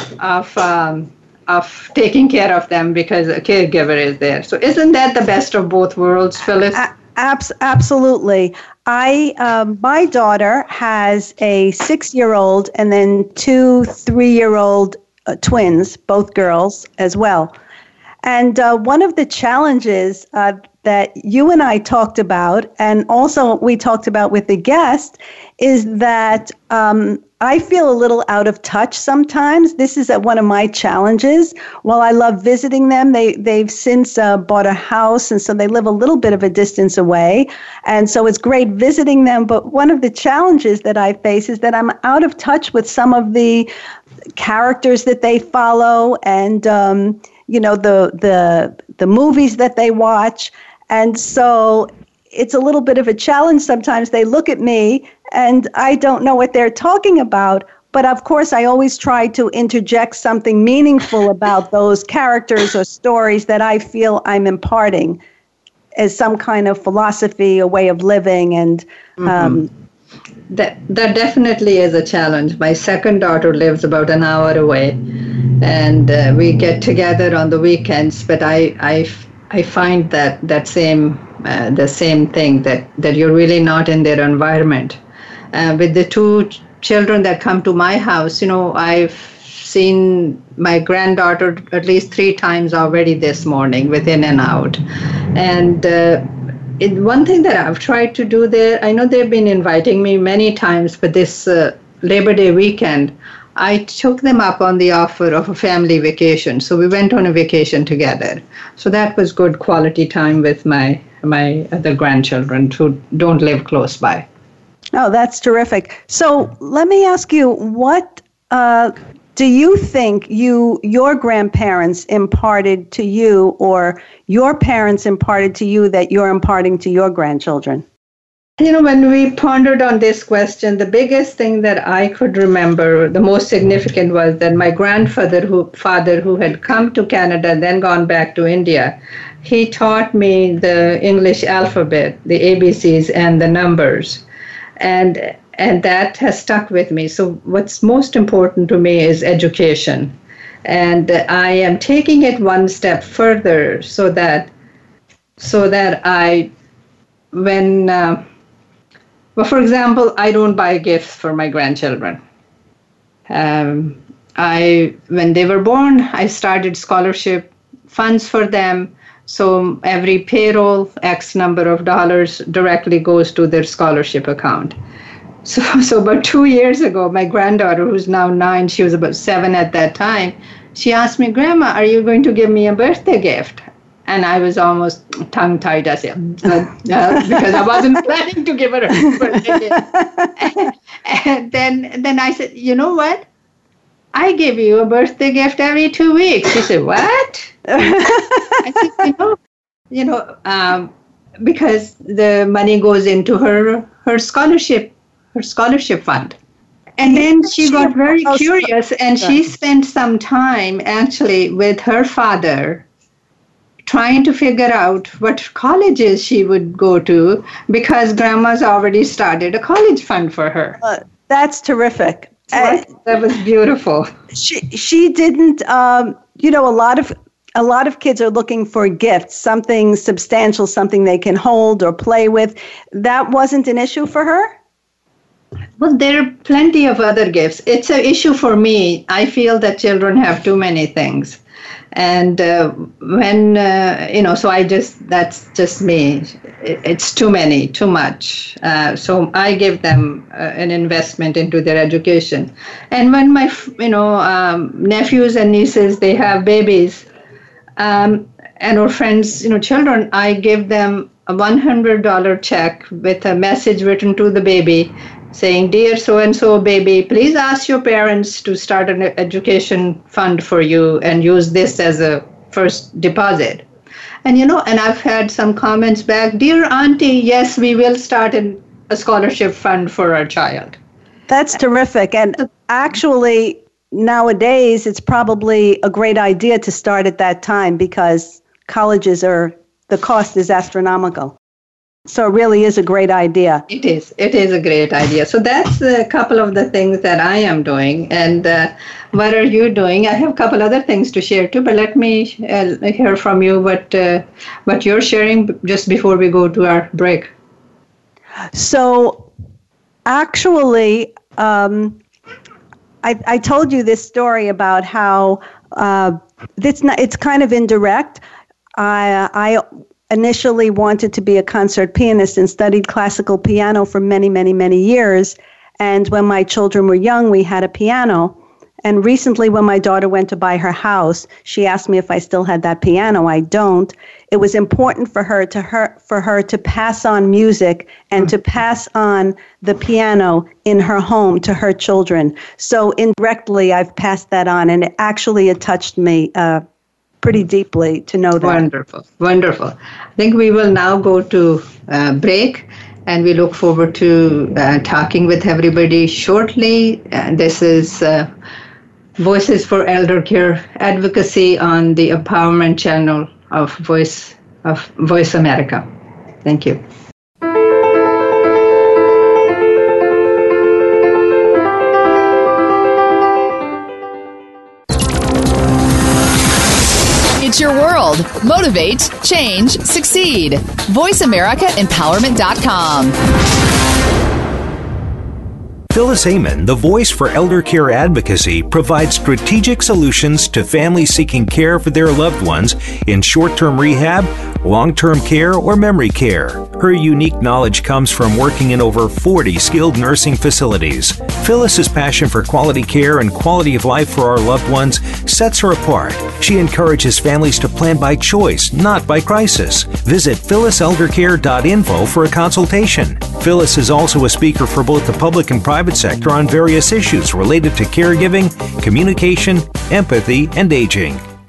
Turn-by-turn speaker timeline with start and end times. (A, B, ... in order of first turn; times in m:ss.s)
0:00.2-0:06.8 A
0:06.7-0:17.5 B
0:18.2-0:43.7 B
0:44.4-1:05.2 B
1:06.0-1:09.7 B
1:10.5-1:25.0 A
1:25.5-1:34.8 A
1:35.3-1:54.2 A
1:54.9-2:07.8 B
2:08.6-2:24.2 A
2:24.8-2:34.5 A
2:35.4-2:36.5 A
2:37.3-2:38.2 A
2:39.4-2:42.2 A
2:43.3-2:54.8 A
2:55.4-3:13.2 A
3:14.1-3:19.4 A
3:17.7-3:18.6 B
3:19.9-3:26.4 A
3:27.0-3:32.8 A
3:27.1-3:28.7 B
3:33.8-3:40.8 A
3:40.8-3:42.8 B
3:42.5-3:44.1 A
3:44.3-3:54.5 B
3:55.8-4:01.4 A
4:01.9-4:17.1 A
4:17.8-4:33.6 A
4:34.2-4:40.8 A
4:41.3-4:51.4 B
4:52.1-4:53.6 B
4:53.7-5:07.3 A
5:08.5-5:09.3 B
5:10.0-5:12.0 B
5:13.0-5:18.2 B
5:18.8-5:46.6 B
5:47.2-5:48.6 B
5:48.4-5:58.3 A
5:59.2-6:05.8 A
6:06.4-6:06.8 A
6:17.4-6:23.2 C
6:25.9-7:01.2 D